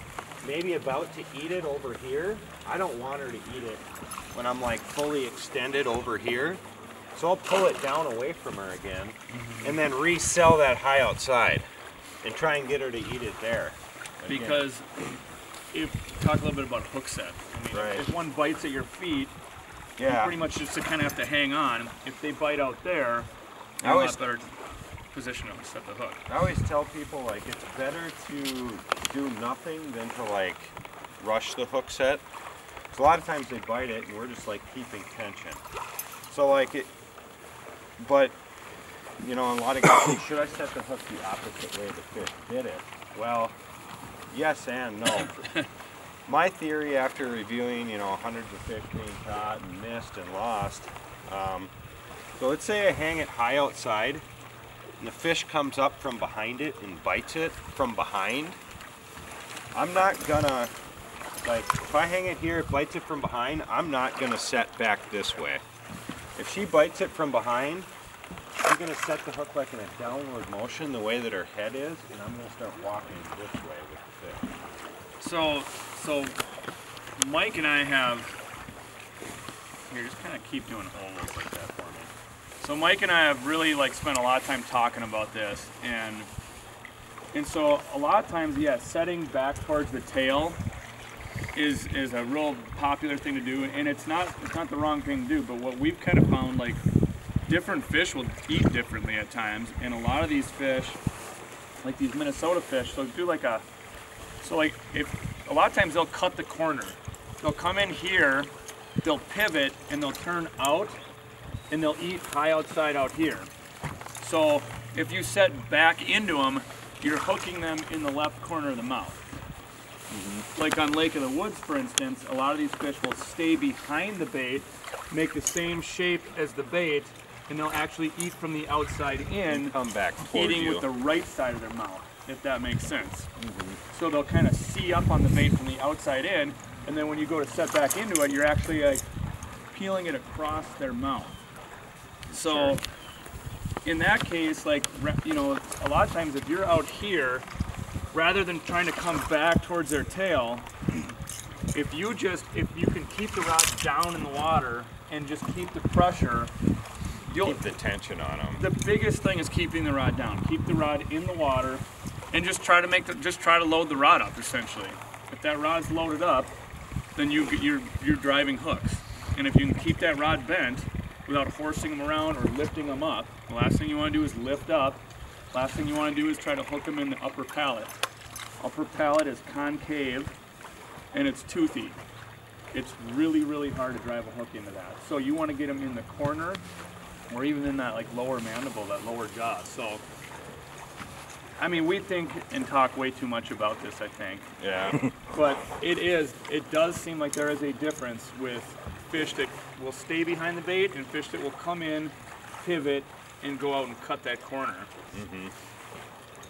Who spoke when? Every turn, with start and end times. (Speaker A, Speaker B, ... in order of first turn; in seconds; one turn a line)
Speaker A: 0.4-6.6
Speaker A: 7.1-11.7
Speaker B: 9.3-9.8
Speaker A: 12.2-14.7
Speaker B: 14.3-15.0
Speaker B: 15.7-19.4
Speaker A: 17.7-18.1
Speaker A: 20.0-20.4
Speaker B: 20.1-23.3
Speaker A: 23.8-24.2
Speaker B: 23.8-24.5
Speaker B: 25.1-26.2
Speaker A: 26.3-32.2
Speaker A: 32.9-35.6
Speaker A: 36.3-36.9
Speaker A: 38.0-38.4
Speaker A: 39.2-43.6
Speaker A: 44.3-45.4
Speaker B: 45.3-45.7
Speaker A: 46.3-51.7
Speaker A: 52.4-54.2
Speaker A: 55.0-58.6
Speaker A: 59.7-60.7
Speaker A: 61.4-65.6
Speaker A: 66.4-67.9
Speaker A: 68.6-74.5
Speaker B: 75.2-76.4
Speaker B: 77.2-78.4
Speaker B: 79.9-86.3
Speaker B: 87.3-90.6
Speaker B: 91.5-96.8
Speaker B: 97.5-101.0
Speaker B: 101.8-103.7
Speaker B: 104.4-108.5
Speaker B: 109.0-111.0
Speaker B: 111.7-113.5
Speaker B: 114.2-119.2
Speaker A: 120.1-120.5
Speaker B: 120.5-133.3
Speaker A: 129.5-130.9
Speaker A: 133.4-133.8
Speaker B: 133.9-139.0
Speaker B: 139.7-141.4
Speaker A: 142.3-142.8
Speaker B: 142.3-142.8
Speaker B: 143.8-147.5
Speaker B: 148.1-150.7
Speaker B: 151.7-156.5
Speaker B: 157.3-157.6
Speaker A: 157.4-158.7
Speaker B: 158.6-166.6
Speaker B: 167.2-178.0
Speaker B: 178.6-180.3
Speaker B: 181.1-182.0
Speaker B: 182.7-186.6
Speaker B: 187.3-190.0
Speaker B: 191.6-194.5
Speaker A: 194.6-195.1
Speaker B: 195.3-204.9
Speaker A: 205.1-205.5